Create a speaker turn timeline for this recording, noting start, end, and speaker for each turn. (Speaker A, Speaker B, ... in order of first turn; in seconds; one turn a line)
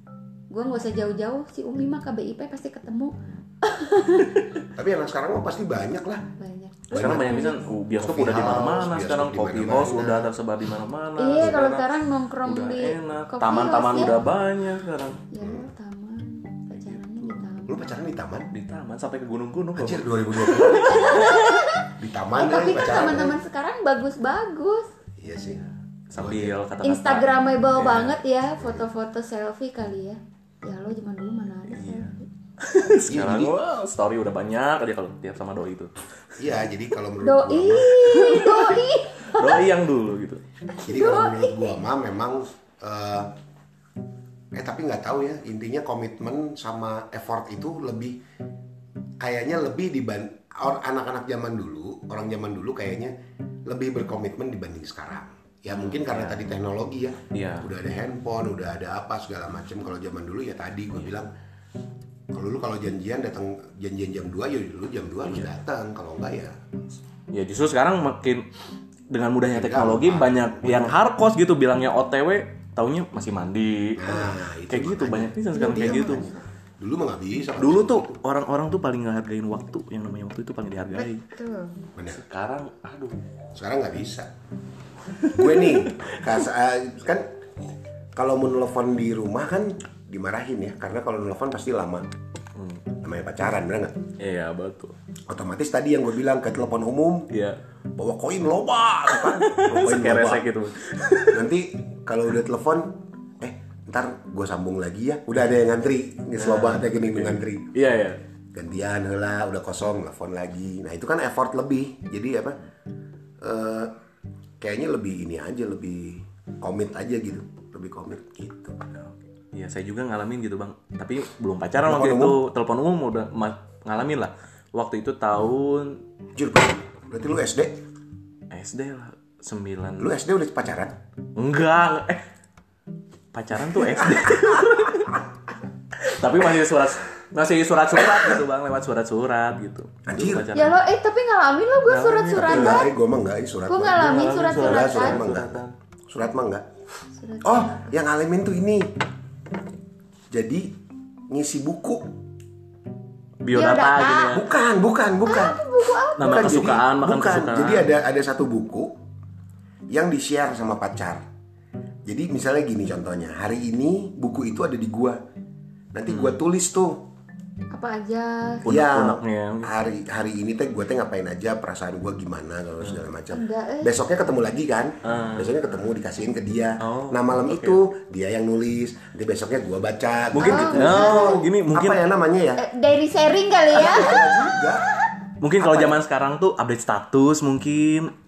Speaker A: 0.5-4.5
Speaker B: 4.7-6.3
Speaker A: 6.4-7.6
Speaker B: 6.9-10.3
Speaker C: 6.9-11.9
Speaker A: 11.2-14.2
Speaker C: 12.4-15.2
Speaker A: 15.3-18.0
Speaker B: 15.4-15.7
Speaker B: 17.7-18.5
Speaker C: 18.5-21.6
Speaker B: 19.8-21.3
Speaker A: 20.5-24.9
Speaker B: 22.0-23.4
Speaker B: 25.2-26.6
Speaker C: 26.1-28.2
Speaker A: 26.8-32.2
Speaker C: 31.7-35.9
Speaker B: 33.1-33.5
Speaker B: 36.4-38.3
Speaker A: 37.2-39.7
Speaker C: 38.1-40.4
Speaker A: 40.7-41.7
Speaker B: 40.9-43.3
Speaker B: 44.5-48.2
Speaker B: 49.2-53.1
Speaker B: 53.6-61.3
Speaker C: 55.7-56.5
Speaker C: 57.3-57.7
Speaker B: 62.3-66.5
Speaker C: 67.3-68.5
Speaker C: 69.1-76.2
Speaker B: 69.5-71.0
Speaker B: 74.0-78.2
Speaker A: 75.5-76.4
Speaker C: 77.6-81.2
Speaker A: 80.9-81.8
Speaker B: 82.0-82.2
Speaker C: 82.1-83.2
Speaker B: 83.5-84.3
Speaker C: 85.2-86.4
Speaker B: 85.3-87.3
Speaker B: 88.2-92.1
Speaker C: 92.5-92.9
Speaker B: 93.0-94.0
Speaker C: 94.2-94.9
Speaker B: 95.3-97.3
Speaker C: 97.3-97.6
Speaker B: 98.0-100.5
Speaker C: 99.1-101.5
Speaker B: 101.3-107.7
Speaker C: 106.4-108.2
Speaker B: 108.5-112.6
Speaker B: 113.4-113.9
Speaker B: 114.6-118.8
Speaker C: 118.9-126.0
Speaker B: 121.8-122.4
Speaker B: 126.3-127.8
Speaker C: 128.5-130.1
Speaker B: 130.0-130.9
Speaker C: 131.3-132.2
Speaker C: 133.3-135.2
Speaker C: 135.9-140.8
Speaker B: 140.1-140.5
Speaker A: 140.5-142.9
Speaker C: 141.9-142.9
Speaker B: 142.3-146.7
Speaker A: 143.7-145.2
Speaker C: 143.9-145.7
Speaker A: 147.1-147.9
Speaker B: 147.4-148.9
Speaker B: 150.3-150.7
Speaker B: 151.3-152.1
Speaker C: 153.4-154.5
Speaker A: 153.5-154.4
Speaker B: 154.3-155.6
Speaker A: 155.2-156.4
Speaker C: 156.2-157.9
Speaker B: 156.2-158.9
Speaker B: 159.9-161.2
Speaker B: 162.1-165.2
Speaker B: 165.9-167.0
Speaker C: 166.1-166.4
Speaker A: 167.7-168.6
Speaker C: 168.6-169.7
Speaker B: 168.6-182.6
Speaker A: 173.3-173.9
Speaker C: 175.0-175.6
Speaker C: 176.8-177.8
Speaker C: 180.3-182.0
Speaker A: 180.4-181.4
Speaker A: 182.6-184.5
Speaker B: 183.7-184.9
Speaker C: 185.4-188.1
Speaker B: 185.6-186.0